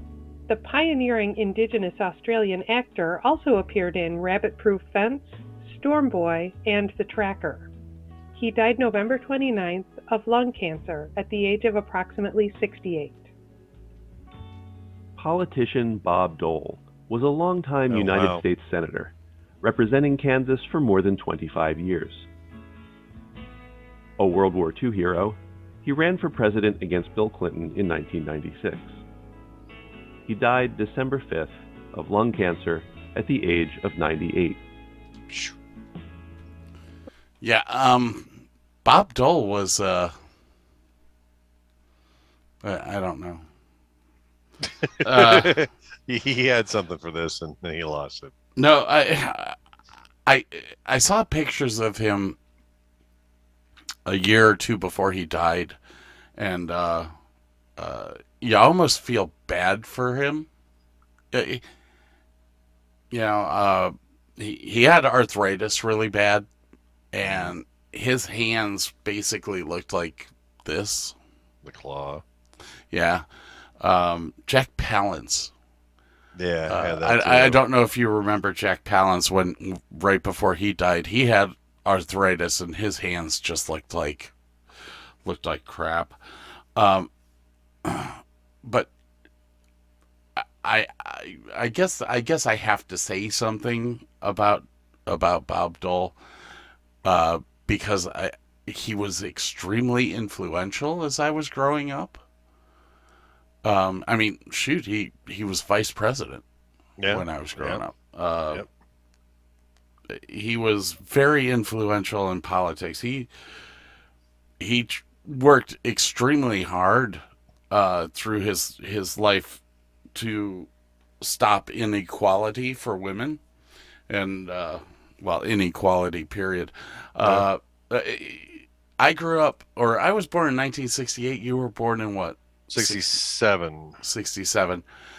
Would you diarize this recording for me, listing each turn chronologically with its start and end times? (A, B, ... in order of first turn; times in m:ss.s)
0:00.5-0:07.7 A
0:08.4-0:13.3 A
0:15.2-0:22.3 B
0:17.9-0:18.4 C
0:24.2-0:29.0 B
0:30.3-0:34.6 B
0:37.4-0:40.1 D
0:42.6-0:43.4 D
0:44.8-0:48.3 C
0:45.0-0:45.6 D
0:48.6-0:49.6 D
0:50.3-0:52.4 D
0:54.1-0:55.8 D
0:56.4-0:57.1 D
0:57.8-1:00.5 D
1:01.3-1:01.6 D
1:03.1-1:06.5 D
1:07.1-1:11.2 D
1:07.2-1:07.5 C
1:11.6-1:12.2 C
1:12.9-1:13.2 D
1:13.8-1:15.5 D
1:16.4-1:17.6 C
1:16.7-1:24.3 D
1:25.2-1:26.2 D
1:26.8-1:27.1 D
1:27.8-1:28.9 D
1:30.4-1:36.2 D
1:37.0-1:42.2 D
1:43.6-1:46.4 D
1:47.0-1:47.8 C
1:47.1-1:48.6 D
1:50.1-1:53.3 D
1:54.6-1:59.6 D
2:00.1-2:00.7 D
2:01.2-2:03.4 D
2:04.1-2:13.2 D
2:12.7-2:14.0 C
2:14.0-2:14.8 D